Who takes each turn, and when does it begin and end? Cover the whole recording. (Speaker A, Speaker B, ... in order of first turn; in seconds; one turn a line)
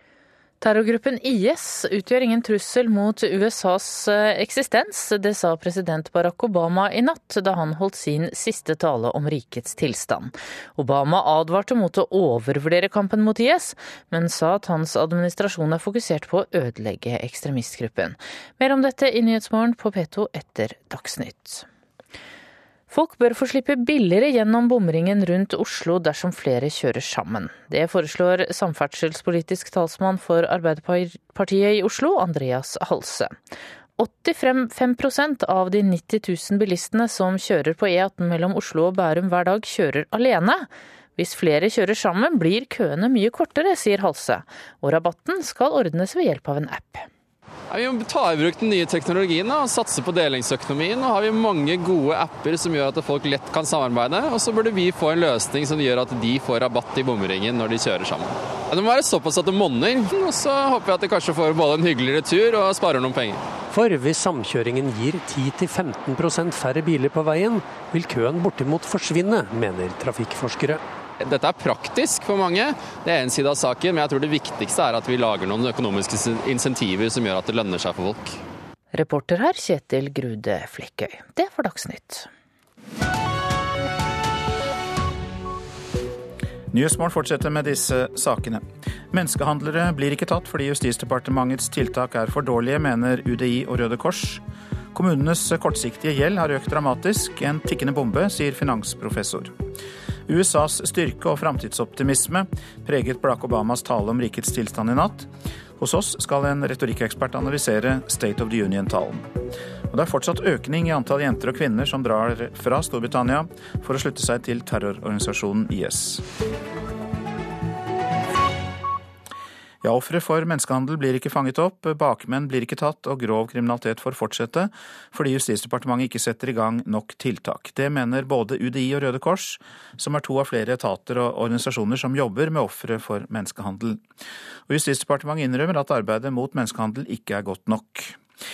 Speaker A: 0.6-21.7
Speaker A: 22.9-33.4
Speaker A: 34.0-47.1
Speaker B: 47.7-63.4
Speaker C: 63.7-70.8
Speaker B: 71.2-78.4
Speaker A: 78.9-82.3
Speaker D: 86.7-94.4
Speaker D: 94.9-99.5
Speaker D: 100.3-109.3
Speaker D: 109.9-116.2
Speaker D: 119.8-134.0
Speaker D: 134.7-138.2